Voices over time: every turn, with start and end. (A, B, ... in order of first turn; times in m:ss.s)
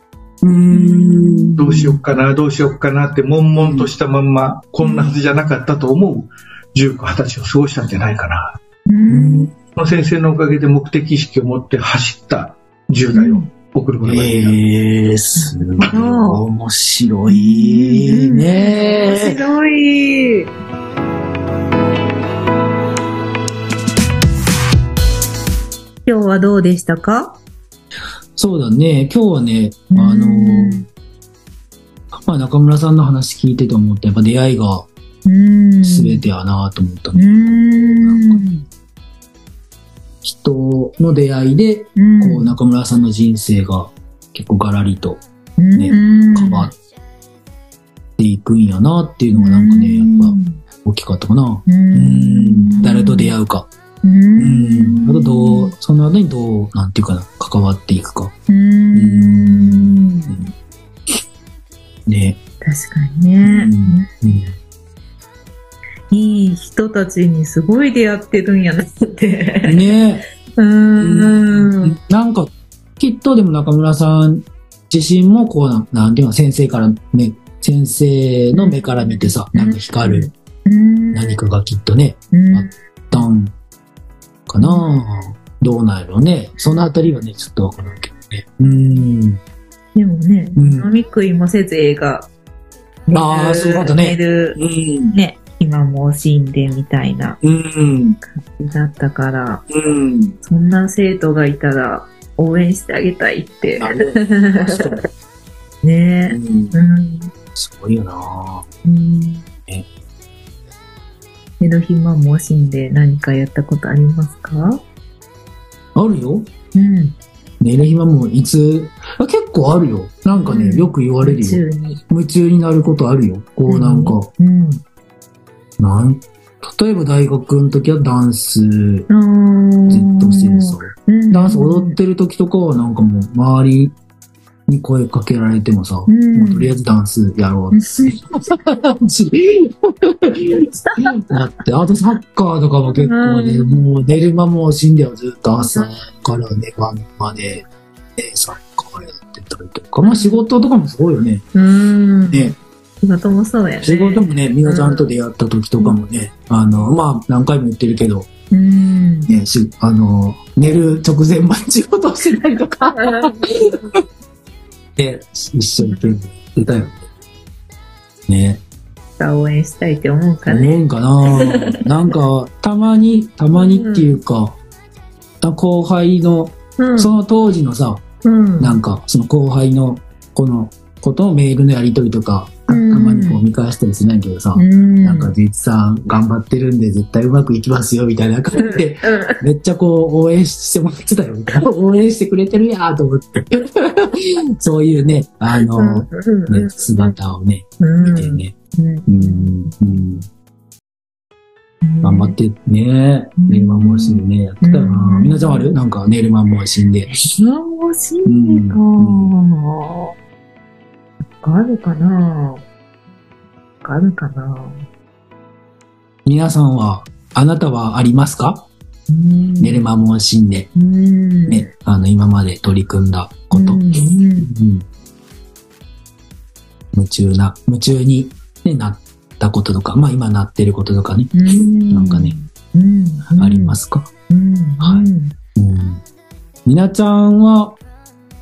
0:00.4-0:02.0 A
0:00.7-0:01.5 B
0:01.6-0:08.6 C
0:03.6-0:03.9 A
0:04.8-0:05.2 B
0:08.9-0:09.5 B
0:09.1-0:09.5 A
0:09.8-0:14.6 C
0:13.1-0:13.5 B
0:14.0-0:19.4 A
0:15.4-0:16.4 B
0:17.3-0:20.5 B
0:26.1-0:27.4 B
0:28.4-0:30.8 A
0:29.9-0:30.9 B
0:32.3-0:34.9 A
0:35.2-0:36.2 B
0:35.8-0:38.4 A
0:37.2-0:38.6 B
0:40.2-0:46.8 A
0:42.0-0:42.5 B
0:45.6-0:46.7 B
0:48.2-0:53.7 A
0:49.4-0:50.6 B
0:51.7-0:53.3 B
0:54.0-0:55.7 B
0:54.4-0:58.4 A
0:58.5-1:00.4 B
0:58.9-1:00.5 A
1:02.1-1:02.4 A
1:02.6-1:04.3 B
1:03.4-1:04.6 A
1:06.1-1:10.0 B
1:09.6-1:10.2 A
1:10.6-1:12.0 B
1:11.0-1:20.3 A
1:18.5-1:21.4 B
1:21.1-1:23.5 A
1:22.3-1:23.3 B
1:24.5-1:29.4 A
1:24.6-1:24.9 B
1:30.0-1:32.3 B
1:30.6-1:30.9 A
1:33.1-1:34.6 B
1:33.1-1:35.2 A
1:35.1-1:37.4 B
1:37.4-1:38.2 A
1:38.5-1:39.7 B
1:39.7-1:40.4 A
1:40.4-1:44.9 B
1:43.8-1:45.0 A
1:45.8-1:47.3 B
1:46.3-1:46.7 A
1:47.6-1:48.7 A
1:48.8-1:49.5 B
1:51.6-1:54.8 B
1:56.0-1:56.5 A
1:56.8-1:57.2 B
1:57.6-2:04.3 A
2:00.3-2:02.0 B
2:03.7-2:04.8 B
2:05.8-2:09.1 A
2:09.1-2:12.0 B
2:09.9-2:14.0 A
2:14.7-2:31.5 A
2:16.1-2:16.8 B
2:17.7-2:18.2 B
2:20.9-2:21.4 B
2:22.9-2:23.8 B
2:30.0-2:30.4 B
2:31.6-2:35.1 B
2:32.3-2:32.6 A
2:33.8-2:38.3 A
2:38.5-2:39.3 B
2:39.3-2:43.8 A
2:42.9-2:43.4 B
2:45.0-2:47.0 A
2:48.3-2:48.6 A
2:49.2-2:51.7 B
2:50.5-2:54.6 A
2:53.5-2:54.2 B
2:55.4-2:58.0 A
2:56.8-2:57.2 B
2:58.2-2:58.8 B
2:58.6-3:18.6 A
3:02.7-3:03.4 B
3:04.6-3:05.3 B
3:08.6-3:09.4 B
3:15.6-3:17.2 B
3:17.8-3:19.8 B
3:19.1-3:20.3 A
3:21.8-3:22.4 B
3:22.0-3:27.1 A
3:23.4-3:25.7 B
3:27.3-3:30.1 B
3:28.3-3:29.3 A
3:31.4-3:32.6 B
3:33.8-3:34.8 B
3:36.2-3:38.7 A
3:39.1-3:39.9 B
3:39.6-3:40.7 A
3:40.8-3:41.7 B
3:41.5-3:44.8 A
3:43.5-3:44.5 B
3:46.9-3:52.4 A
3:51.3-3:53.8 B
3:53.4-3:54.1 A
3:54.3-3:55.3 B
3:54.8-3:56.0 A
3:56.6-3:57.8 A